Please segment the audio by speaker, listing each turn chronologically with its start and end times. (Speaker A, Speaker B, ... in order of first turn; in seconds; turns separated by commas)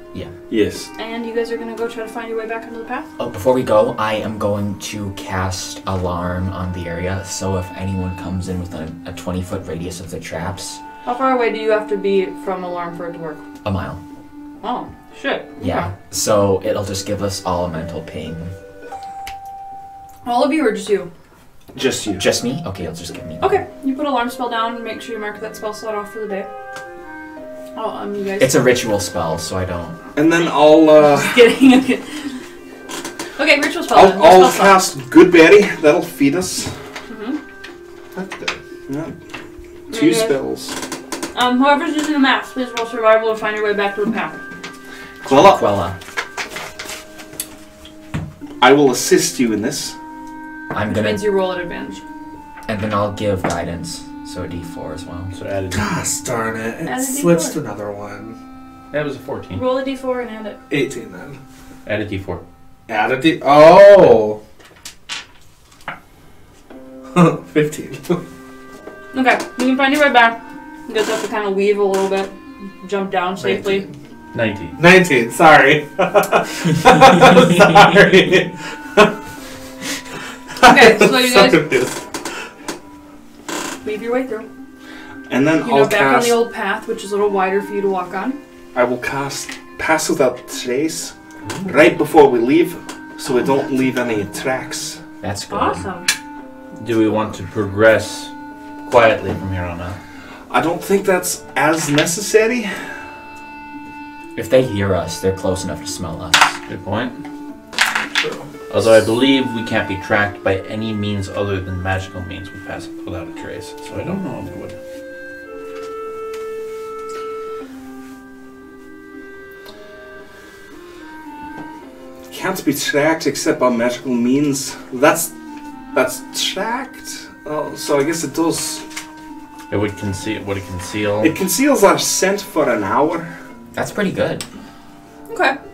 Speaker A: 0.5-0.9, Speaker B: 1.0-3.1, Speaker C: 3.2-10.8, Speaker B: 11.1-13.4, Speaker C: 13.6-14.0, Speaker B: 14.6-15.6, Speaker C: 15.6-18.5, Speaker B: 20.2-21.1, Speaker A: 21.8-22.2, Speaker C: 22.2-23.6, Speaker B: 23.4-26.5, Speaker B: 27.8-28.6, Speaker C: 28.4-30.0, Speaker A: 30.1-31.5, Speaker B: 31.0-32.4, Speaker B: 33.4-34.8, Speaker A: 33.9-36.7, Speaker B: 37.1-37.4, Speaker D: 38.1-38.6, Speaker A: 38.9-39.1, Speaker A: 39.9-40.8, Speaker B: 39.9-40.4, Speaker B: 41.3-44.4, Speaker A: 45.2-45.6, Speaker C: 45.2-46.0, Speaker A: 48.6-50.0, Speaker C: 50.7-51.2, Speaker B: 50.9-52.0, Speaker C: 52.7-55.3, Speaker E: 55.3-56.0, Speaker D: 55.7-58.4, Speaker B: 56.9-57.6, Speaker E: 58.9-59.7, Speaker B: 59.5-60.6, Speaker D: 60.7-61.4, Speaker E: 61.9-62.4, Speaker D: 62.9-64.4, Speaker D: 67.1-68.2, Speaker B: 69.1-73.8, Speaker D: 73.4-73.9, Speaker E: 74.3-74.8, Speaker D: 74.8-79.2, Speaker D: 80.6-82.1, Speaker B: 80.6-81.8, Speaker B: 83.8-84.5, Speaker A: 85.3-86.4, Speaker B: 85.6-88.4, Speaker A: 88.7-91.1, Speaker A: 91.7-95.0, Speaker C: 95.2-95.9, Speaker B: 95.5-96.1, Speaker E: 96.8-98.3, Speaker E: 98.9-100.0, Speaker A: 100.5-102.7, Speaker C: 104.3-106.6, Speaker E: 106.7-107.2, Speaker E: 108.7-114.8, Speaker A: 122.3-125.3, Speaker A: 125.9-128.8, Speaker E: 129.7-131.4, Speaker A: 131.2-133.3, Speaker C: 133.7-134.4, Speaker B: 135.3-135.6